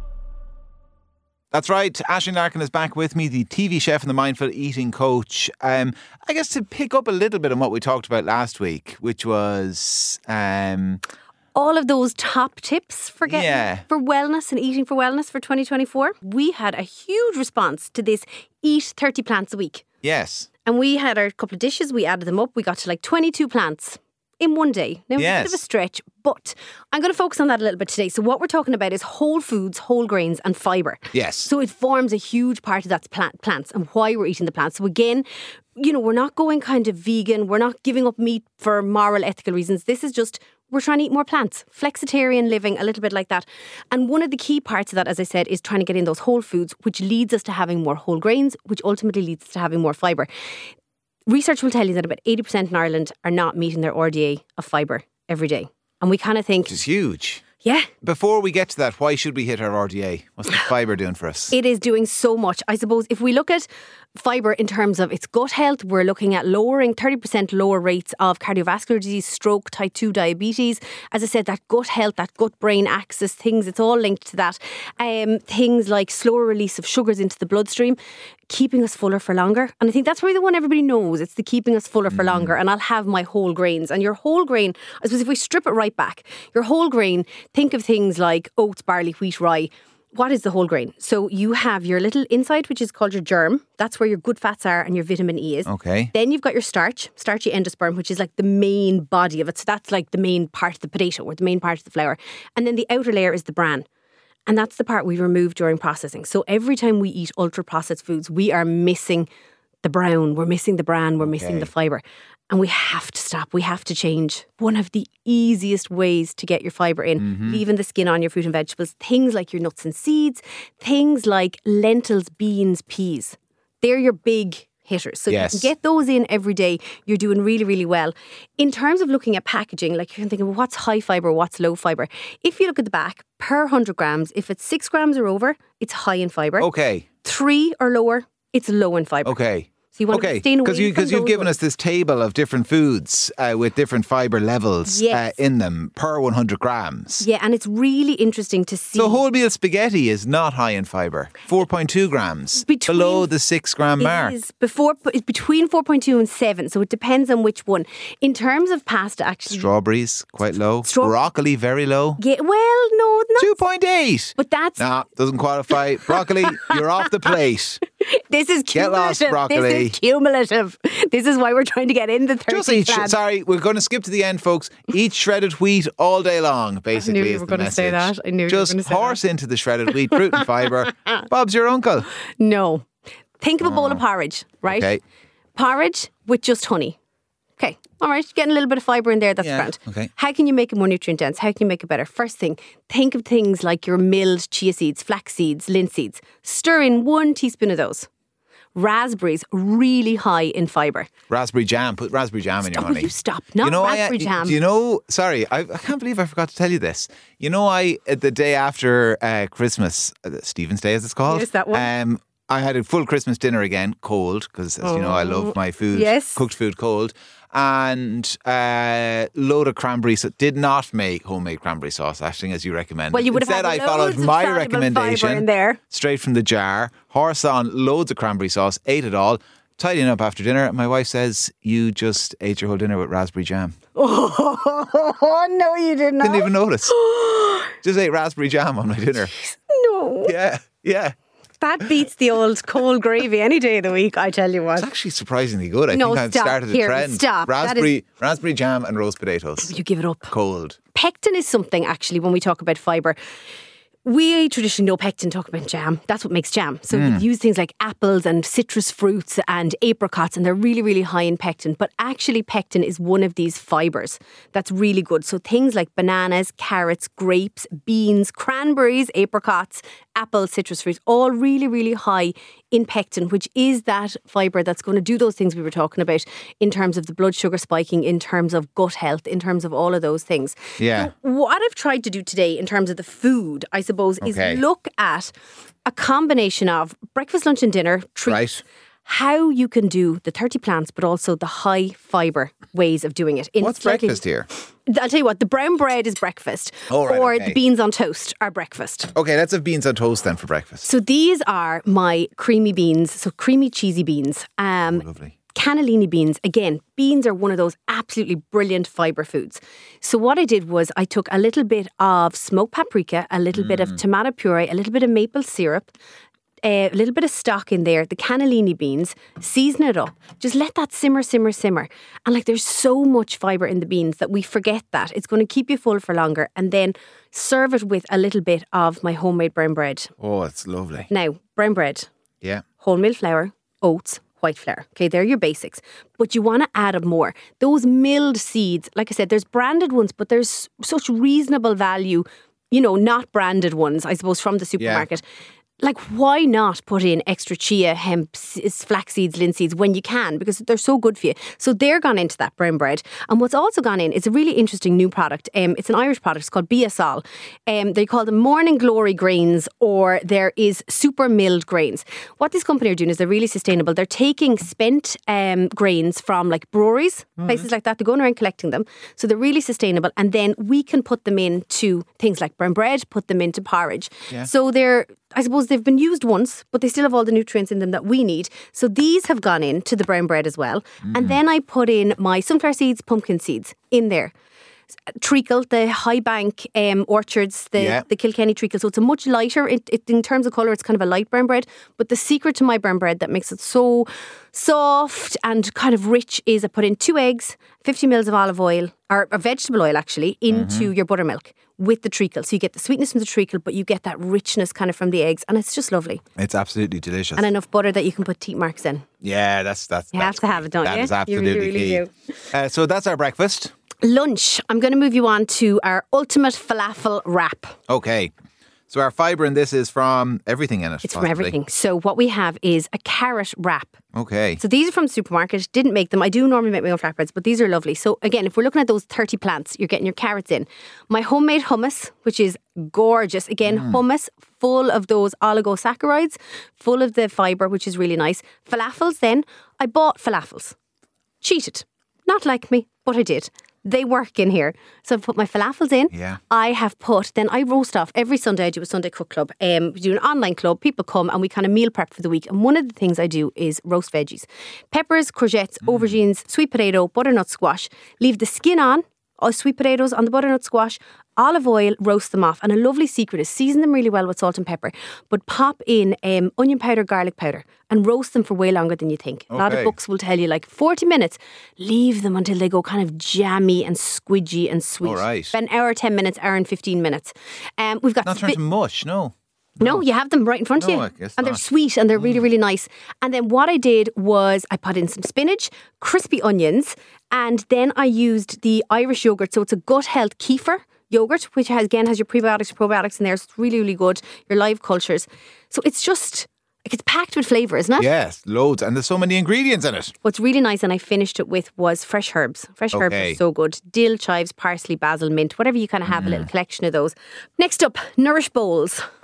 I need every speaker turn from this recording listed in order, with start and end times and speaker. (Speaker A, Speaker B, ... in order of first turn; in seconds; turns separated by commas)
Speaker A: 1.5-11.0, Speaker B: 11.6-19.9, Speaker A: 13.3-13.8, Speaker A: 20.0-20.5, Speaker B: 20.6-50.3, Speaker A: 25.2-25.6, Speaker A: 31.1-31.5, Speaker B: 51.3-56.8, Speaker A: 56.7-57.5, Speaker B: 57.6-57.9, Speaker A: 58.0-61.6, Speaker B: 61.5-78.0, Speaker B: 78.5-103.9, Speaker A: 82.1-82.5, Speaker A: 95.7-96.1, Speaker B: 104.5-109.3, Speaker B: 109.8-136.7, Speaker A: 111.2-111.7, Speaker A: 117.2-117.6, Speaker A: 125.3-125.7, Speaker A: 136.6-137.1, Speaker B: 137.2-139.4, Speaker A: 139.2-147.2, Speaker B: 139.9-141.5, Speaker B: 144.8-145.4, Speaker B: 147.2-149.2, Speaker A: 148.9-154.4, Speaker B: 152.6-153.3, Speaker B: 154.0-159.7, Speaker A: 159.5-162.2, Speaker B: 160.8-161.2, Speaker B: 162.2-163.6, Speaker A: 163.4-167.8, Speaker B: 164.4-164.9, Speaker B: 166.0-167.3, Speaker B: 168.0-173.2, Speaker A: 168.7-170.0, Speaker A: 172.5-182.1, Speaker B: 176.9-179.2, Speaker B: 180.1-180.4, Speaker B: 182.3-182.8, Speaker B: 183.4-184.9, Speaker A: 183.6-184.0, Speaker A: 184.7-185.0, Speaker B: 185.6-187.0, Speaker B: 187.6-198.1, Speaker A: 189.4-190.1, Speaker B: 198.8-201.1, Speaker A: 201.3-233.8, Speaker B: 202.7-204.6, Speaker B: 211.2-211.9, Speaker B: 214.8-216.4, Speaker B: 223.1-225.8, Speaker B: 233.9-237.7, Speaker A: 236.2-237.0, Speaker A: 237.8-239.3, Speaker B: 239.3-240.3, Speaker A: 240.2-241.2, Speaker B: 241.6-244.9, Speaker A: 244.8-249.7, Speaker B: 245.9-247.9, Speaker B: 249.6-250.3, Speaker A: 250.3-250.8, Speaker B: 250.9-253.2, Speaker B: 254.0-285.3, Speaker A: 256.9-257.2, Speaker A: 280.8-281.1, Speaker A: 284.2-284.6, Speaker B: 285.9-288.5, Speaker A: 288.2-288.6, Speaker B: 289.0-294.2, Speaker A: 293.6-294.5, Speaker B: 294.9-299.1, Speaker A: 296.9-297.6, Speaker A: 299.1-300.9, Speaker B: 300.8-315.9, Speaker A: 304.8-305.3, Speaker A: 313.5-314.0, Speaker B: 316.6-330.1, Speaker A: 330.2-331.1, Speaker B: 331.1-332.1, Speaker B: 332.8-345.2, Speaker A: 344.8-345.1, Speaker B: 345.8-384.3, Speaker A: 367.4-367.6, Speaker A: 381.1-381.4, Speaker B: 385.2-406.2, Speaker A: 387.8-388.0, Speaker A: 400.5-400.9, Speaker A: 406.4-407.5, Speaker B: 407.4-409.1, Speaker A: 409.2-413.7, Speaker B: 410.1-412.1, Speaker B: 414.0-417.7, Speaker A: 417.9-418.3, Speaker A: 418.9-421.6, Speaker B: 421.0-424.0, Speaker A: 424.1-424.6, Speaker B: 424.6-440.8, Speaker A: 433.6-434.0, Speaker B: 441.4-478.6, Speaker A: 446.1-446.4, Speaker A: 455.9-456.1, Speaker A: 469.5-469.9, Speaker A: 475.0-475.6, Speaker A: 478.2-480.0, Speaker B: 479.8-498.1, Speaker A: 480.8-481.6, Speaker A: 498.0-500.1, Speaker B: 500.2-509.0, Speaker A: 502.9-503.4, Speaker A: 506.1-506.5